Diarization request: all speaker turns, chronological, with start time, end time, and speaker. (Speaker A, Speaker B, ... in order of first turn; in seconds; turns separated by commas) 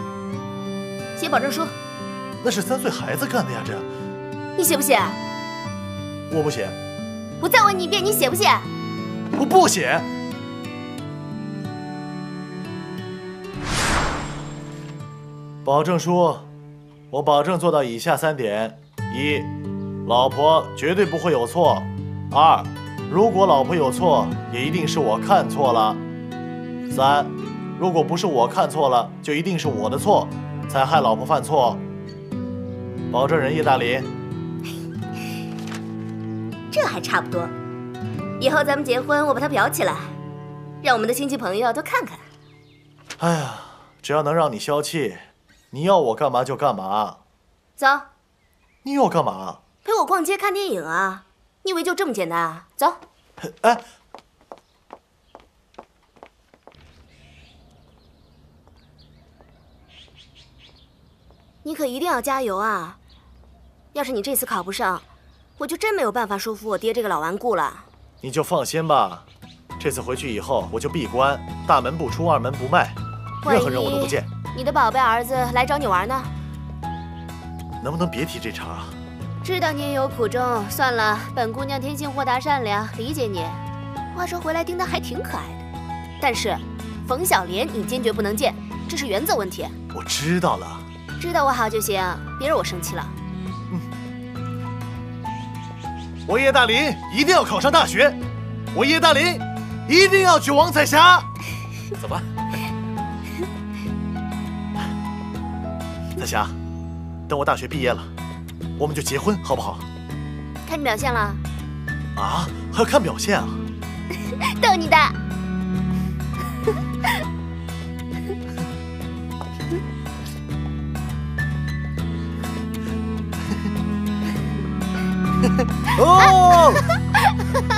Speaker A: 1.1-1.8, Speaker B: 2.4-3.9, Speaker A: 4.5-5.2, Speaker B: 6.3-6.8, Speaker A: 7.4-8.7, Speaker B: 9.3-10.1, Speaker B: 15.6-16.5, Speaker B: 17.1-19.5, Speaker B: 20.1-26.0, Speaker B: 26.9-31.8, Speaker B: 33.1-34.1, Speaker A: 36.7-37.5, Speaker A: 38.4-40.1, Speaker A: 40.8-42.2, Speaker B: 43.2-47.2, Speaker A: 47.8-48.1, Speaker B: 48.8-49.6, Speaker A: 49.8-53.0, Speaker B: 53.4-53.8, Speaker A: 61.6-63.0, Speaker A: 63.9-65.0, Speaker A: 65.6-67.8, Speaker B: 68.2-69.2, Speaker B: 69.8-74.3, Speaker A: 73.4-76.3, Speaker B: 77.8-79.0, Speaker A: 79.4-85.6, Speaker A: 86.2-89.7, Speaker B: 89.9-90.9, Speaker A: 91.2-93.2, Speaker B: 96.3-98.2, Speaker B: 98.7-101.3, Speaker B: 106.2-106.5, Speaker B: 107.3-108.1, Speaker B: 108.8-109.8, Speaker A: 110.6-111.4, Speaker B: 112.2-113.6, Speaker A: 114.5-115.2, Speaker B: 125.8-126.8